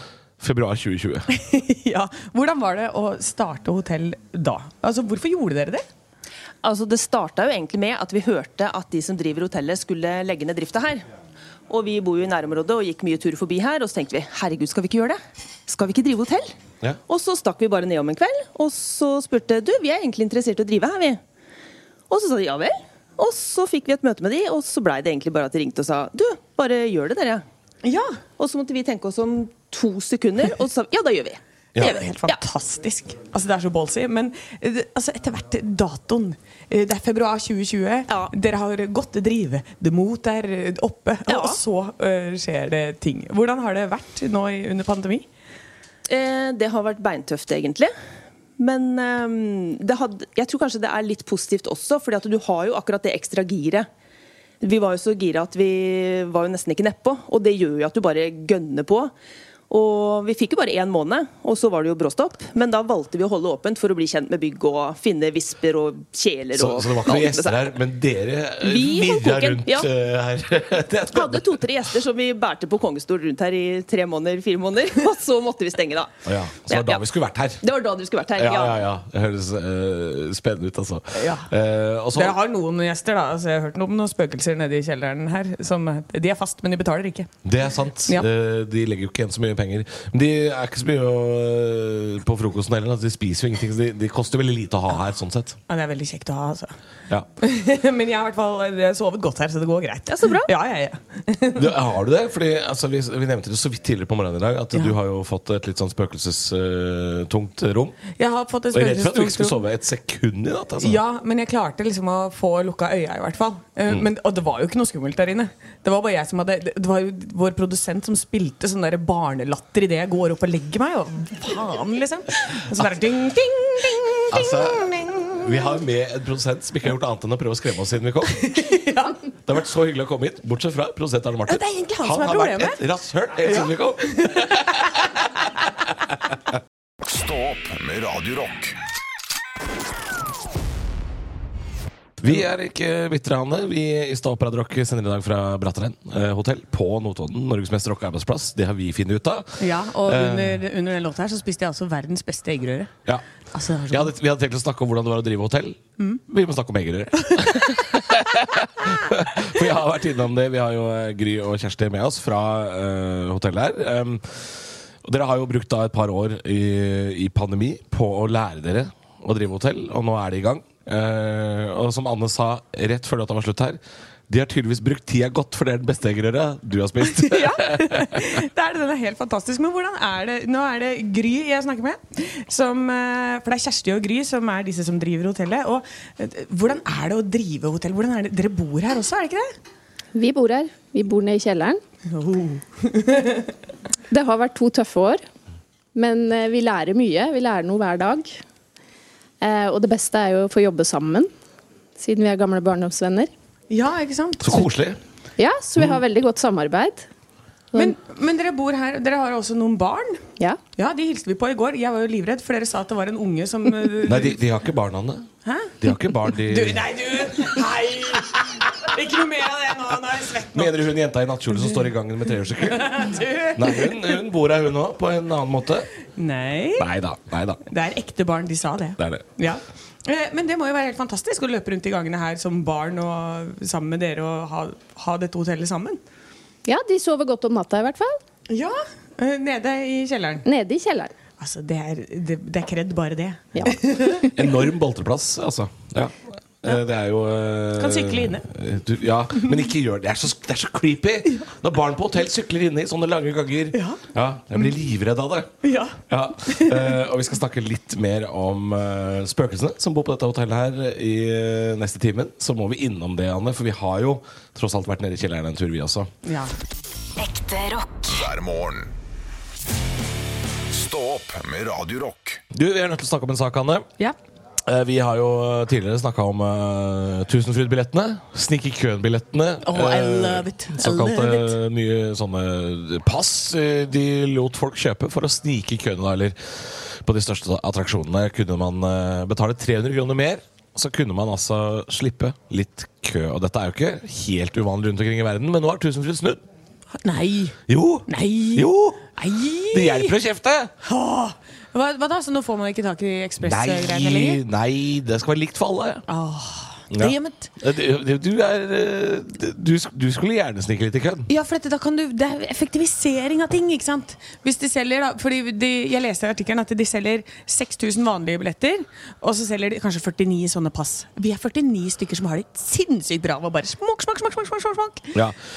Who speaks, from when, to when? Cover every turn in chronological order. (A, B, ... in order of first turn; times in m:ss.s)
0:00.4-0:01.3 A
0:01.3-0:05.8 B
0:06.6-0:11.1 C
0:11.7-0:16.5 C
0:17.1-0:21.2 C
0:22.1-0:27.4 C
0:27.8-0:28.2 B
0:28.4-0:32.4 C
0:31.8-0:32.0 A
0:31.8-0:45.3 B
0:41.3-0:41.6 C
0:46.1-0:47.9 C
0:48.6-0:53.9 C
0:54.6-0:59.1 C
0:59.7-1:07.8 C
1:06.5-1:11.6 A
1:08.6-1:09.9 C
1:11.1-1:16.1 C
1:16.2-1:17.6 A
1:16.7-1:17.0 C
1:17.6-1:18.8 C
1:18.4-1:22.4 A
1:21.1-1:21.5 B
1:22.1-1:27.3 B
1:27.4-1:35.6 A
1:35.7-1:36.7 B
1:37.4-1:41.7 B
1:40.1-1:40.5 C
1:41.6-1:48.0 A
1:48.2-1:49.6 B
1:48.7-1:51.0 A
1:50.8-2:05.5 B
2:04.3-2:08.6 A
2:08.3-2:09.2 B
2:09.5-2:15.2 A
2:11.5-2:12.8 B
2:13.4-2:15.0 B
2:16.1-2:16.4 A
2:17.0-2:18.8 D
2:22.2-2:30.6 A
2:29.6-2:32.9 B
2:33.5-2:34.1 B
2:33.9-2:58.4 A
2:37.3-2:37.7 B
2:57.1-3:09.5 B
3:10.2-3:11.8 E
3:12.1-3:13.5 B
3:14.1-3:15.2 E
3:16.0-3:18.4 E
3:19.4-3:21.3 E
3:22.0-3:23.3 E
3:23.7-3:24.7 B
3:24.4-3:25.0 A
3:25.4-3:27.1 E
3:27.8-3:30.2 B
3:30.8-3:34.4 B
3:34.0-3:36.9 A
3:35.4-3:40.8 B
3:40.5-3:45.9 A
3:41.5-3:41.8 B
3:42.6-3:44.2 B
3:46.2-3:46.9 B
3:46.8-3:47.6 A
3:47.7-3:56.0 B
3:49.0-3:49.3 A
3:56.7-3:58.2 E
3:58.5-4:00.4 B
4:00.4-4:01.1 E
4:01.4-4:04.4 B
4:03.6-4:04.3 E
4:04.3-4:15.5 A
4:07.8-4:08.4 B
4:13.7-4:14.0 B
4:15.6-4:17.0 B
4:16.1-4:26.1 A
4:26.2-4:26.5 B
4:27.3-4:28.9 D
4:30.7-4:32.4 D
4:32.5-4:33.9 A
4:34.6-4:56.4 A
4:39.6-4:41.6 B
4:57.0-4:57.6 B
4:57.7-4:59.1 A
4:58.1-5:00.2 B
4:59.7-5:00.7 A
5:00.8-5:04.4 B
5:03.4-5:06.0 A
5:06.1-5:07.5 B
5:06.9-5:11.3 A
5:11.3-5:25.1 B
5:25.1-5:25.4 A